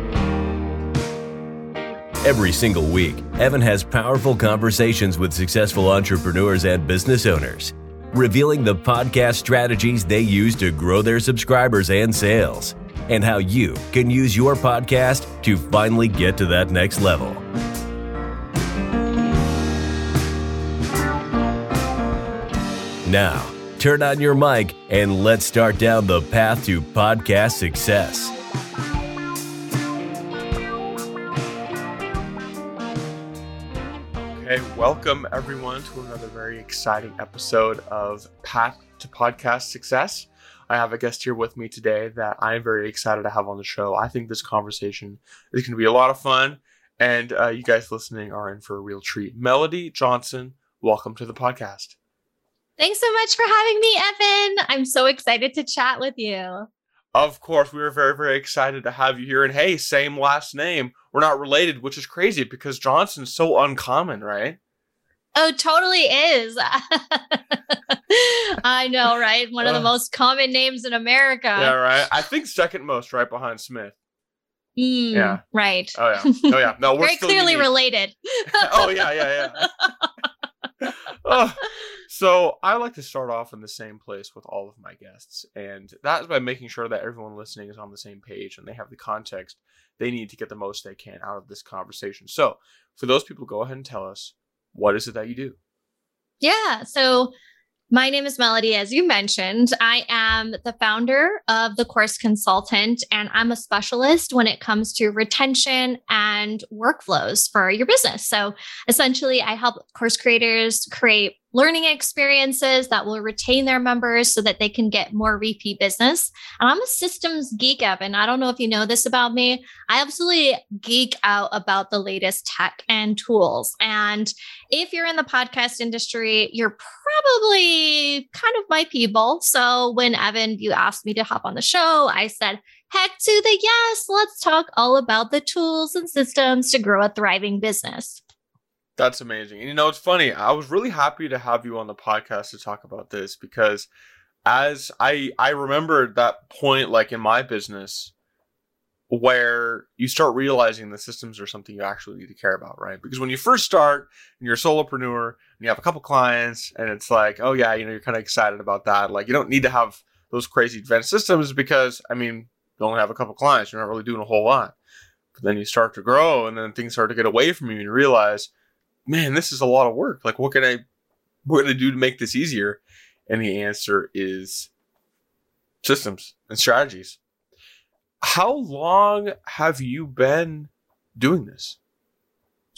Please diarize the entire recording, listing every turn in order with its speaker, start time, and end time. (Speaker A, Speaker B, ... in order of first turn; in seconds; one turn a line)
Speaker A: 2.2-17.4
Speaker A: 23.0-28.3
Speaker B: 34.3-51.9
Speaker C: 52.8-56.7
Speaker B: 57.1-64.6
Speaker C: 65.3-71.8
Speaker B: 69.6-69.9
Speaker B: 71.5-74.0
Speaker C: 74.8-80.1
Speaker B: 75.1-75.4
Speaker B: 75.9-77.7
Speaker B: 78.6-79.7
Speaker B: 81.2-95.6
Speaker C: 96.4-97.3
Speaker C: 97.9-138.2
Speaker B: 138.9-143.9
Speaker B: 144.4-148.1
Speaker B: 149.1-164.7
Speaker B: 165.3-168.5
Speaker B: 169.1-170.8
Speaker B: 171.4-174.7
Speaker B: 175.8-177.2
Speaker B: 178.2-181.8